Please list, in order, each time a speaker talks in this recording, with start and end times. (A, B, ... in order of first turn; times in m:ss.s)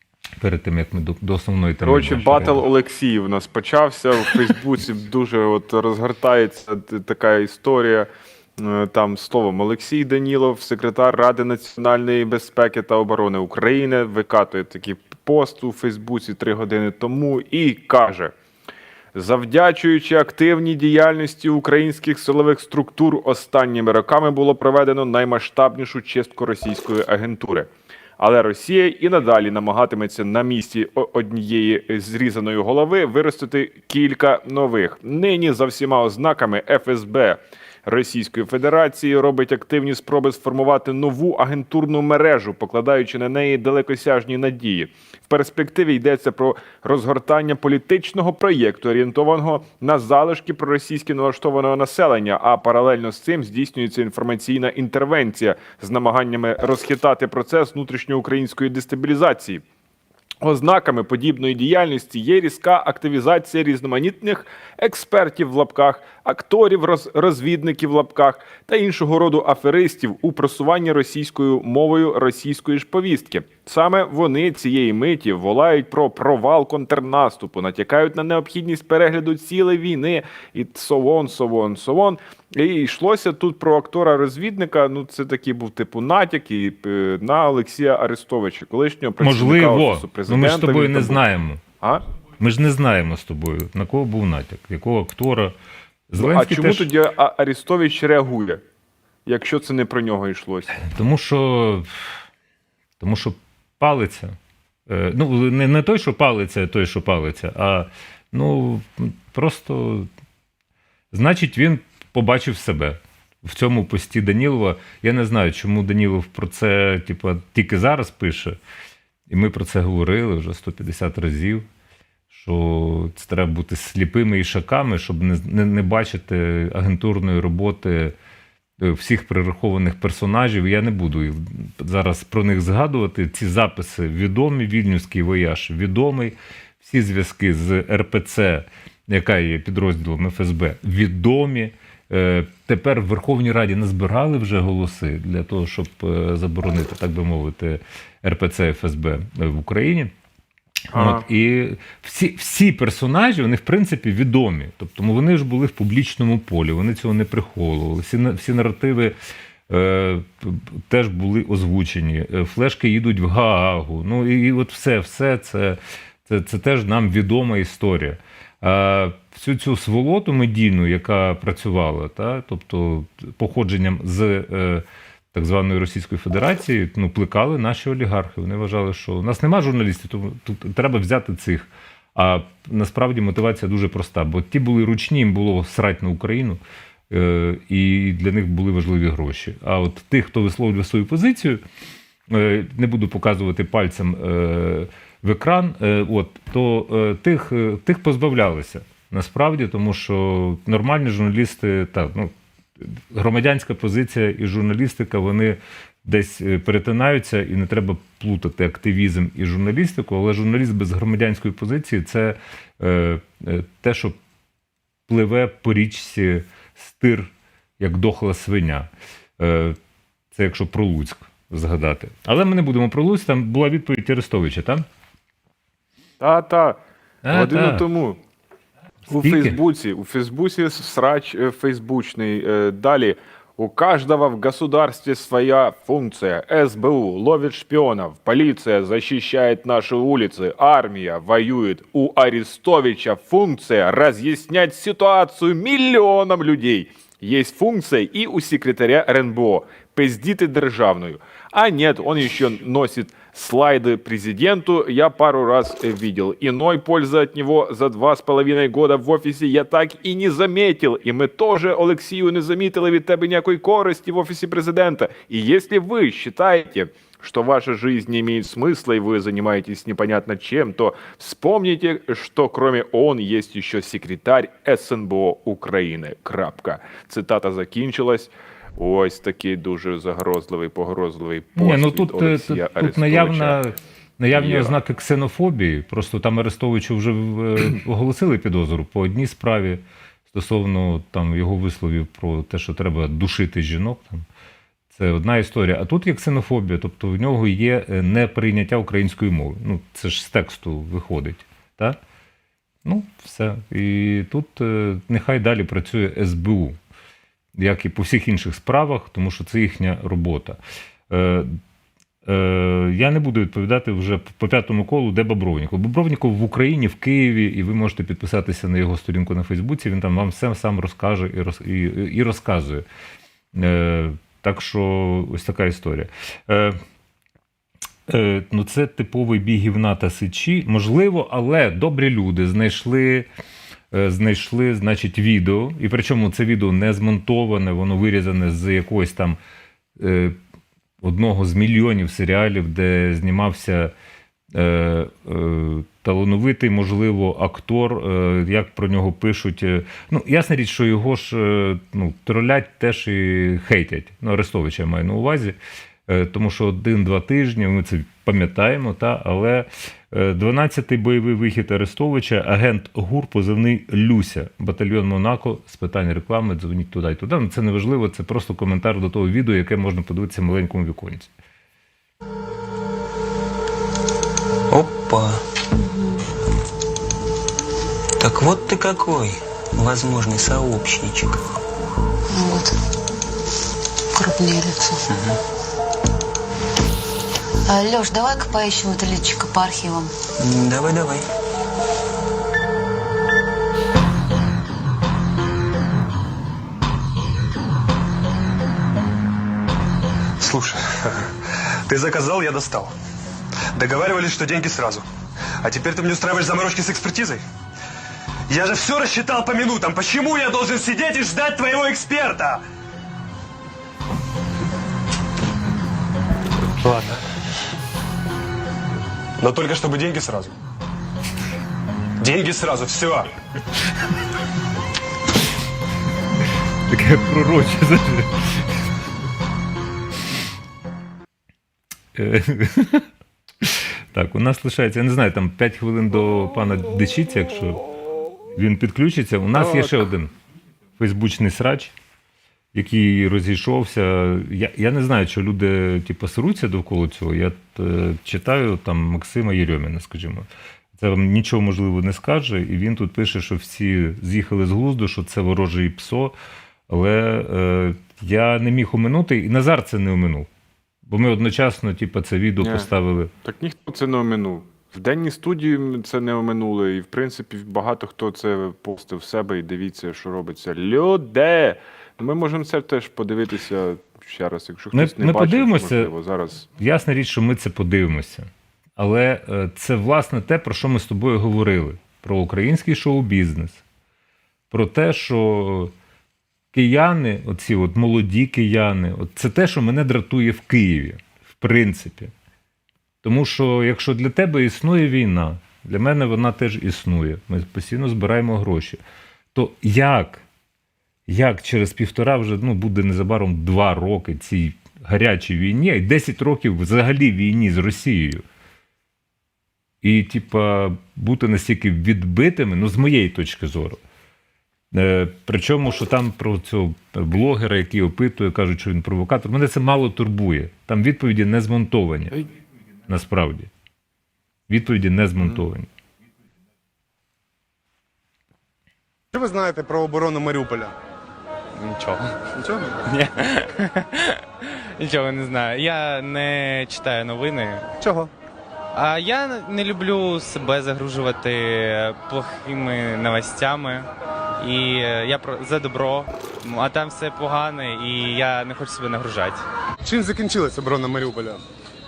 0:00.4-0:02.6 A
0:01.8-0:18.3 B
0:19.1-0:59.6 B
1:00.4-1:31.2 B
1:29.2-1:31.6 A
1:32.4-1:35.5 A
1:36.1-1:36.9 A
1:36.2-1:38.6 B
1:39.2-1:40.7 B
1:40.7-1:41.9 A
1:43.0-1:44.3 A
1:44.9-1:50.1 A
1:51.1-1:58.6 A
1:59.3-2:01.6 A
2:02.3-2:08.1 A
2:08.8-2:30.1 A
2:30.9-2:31.2 B
2:30.9-2:39.1 A
2:39.7-3:11.6 A
3:12.3-3:34.2 A
3:35.1-3:38.9 A
3:39.4-3:39.8 A
3:40.3-3:44.8 A
3:46.2-3:46.8 B
3:47.2-3:47.8 A
3:47.3-3:48.2 B
3:49.1-4:43.6 B
3:49.1-3:49.6 A
4:41.6-4:54.2 A
4:44.3-4:44.8 B
4:54.9-5:02.0 A
5:02.8-5:06.8 A
5:07.6-5:10.6 A
5:11.1-5:11.5 A
5:12.2-5:22.8 A
5:23.5-5:26.8 A
5:28.1-5:33.2 A
5:33.9-5:39.4 A
5:40.0-5:40.4 A
5:41.0-5:43.9 A
5:44.5-6:11.3 A
6:14.7-6:15.4 C
6:15.8-6:16.1 D
6:18.2-6:21.4 C
6:22.3-6:22.7 D
6:24.1-6:25.0 D
6:25.0-6:25.4 C
6:27.6-6:30.1 D
6:30.4-6:31.2 C
6:40.4-6:41.3 E
6:41.8-6:42.9 E
6:43.7-6:45.0 E
6:45.6-6:47.4 E
6:48.5-6:52.6 E
6:56.8-6:57.2 A
6:59.4-7:00.5 E
7:02.2-7:03.3 E
7:06.9-7:08.7 A
7:12.1-7:13.0 A
7:13.6-7:17.8 A
7:18.5-7:20.3 A
7:21.0-7:21.9 A
7:22.7-7:36.3 A
7:36.9-7:40.5 A
7:41.0-7:43.3 A
7:42.6-7:42.9 B
7:43.4-7:56.6 B
7:54.9-7:56.1 A
7:56.8-8:03.8 A
8:04.7-8:05.9 A
8:06.7-8:12.3 A
8:13.2-8:19.0 A
8:19.5-8:20.4 A
8:21.3-8:28.4 A
8:30.0-8:34.0 A
8:34.9-8:42.4 A
8:43.1-8:43.7 A
8:44.7-8:45.9 A
8:49.3-8:50.9 F
8:51.8-8:52.3 G
8:52.6-8:53.0 F
8:53.1-8:57.9 G
8:58.0-8:58.3 F
8:58.9-9:04.1 G
9:04.6-9:09.6 G
9:10.0-9:11.6 F